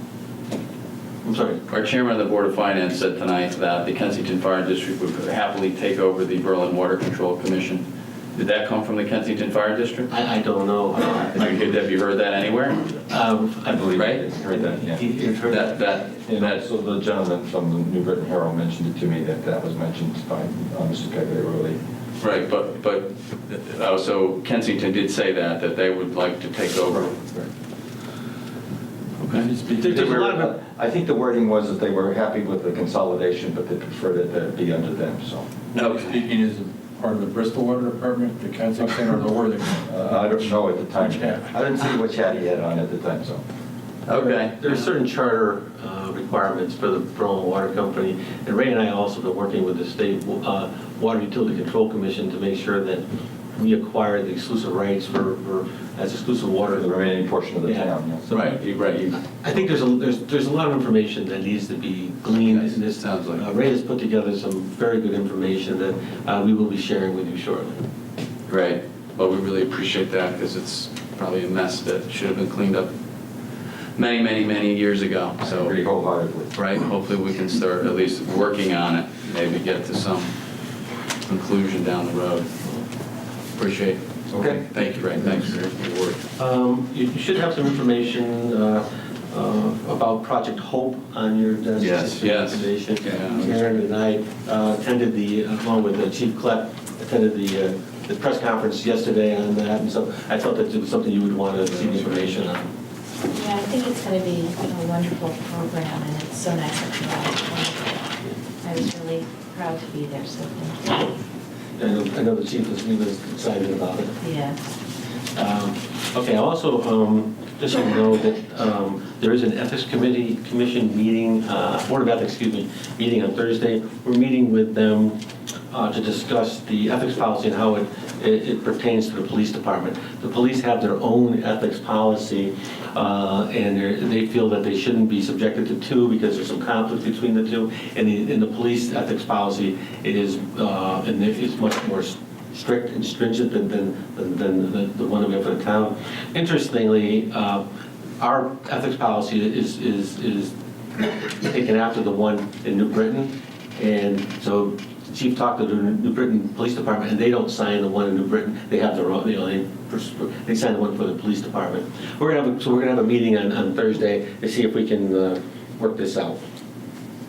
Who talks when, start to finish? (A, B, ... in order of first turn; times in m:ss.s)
0:01.2-0:01.6 A
0:01.7-0:10.1 B
0:10.1-0:11.8 A
0:11.3-0:12.9 B
0:13.0-0:15.8 A
0:13.7-0:15.1 C
0:14.0-0:14.2 B
0:15.5-0:16.6 B
0:16.2-0:21.8 C
0:22.2-0:27.2 B
0:26.9-0:27.5 C
0:29.2-0:29.5 B
0:29.3-0:29.9 D
0:29.7-0:30.5 A
0:29.8-0:35.5 C
0:35.7-0:36.3 B
0:35.8-0:40.4 D
0:39.9-0:43.4 C
0:41.1-0:41.4 D
0:44.0-0:44.9 B
0:44.1-0:53.0 A
0:53.5-0:57.1 A
0:56.7-0:58.3 C
0:57.6-0:58.6 A
0:58.3-0:59.2 B
0:59.2-1:07.8 A
1:02.4-1:03.5 B
1:08.5-1:12.9 B
1:14.0-1:15.7 B
1:15.4-1:16.5 C
1:16.5-1:20.3 B
1:21.3-1:22.5 B
1:23.5-1:26.2 B
1:24.3-1:24.6 C
1:26.4-1:42.7 A
1:31.8-1:33.6 B
1:41.7-1:42.4 B
1:43.3-1:51.1 E
1:51.8-1:54.2 A
1:54.2-1:54.6 E
1:55.3-2:05.2 A
2:05.7-2:27.6 A
2:28.2-2:46.4 A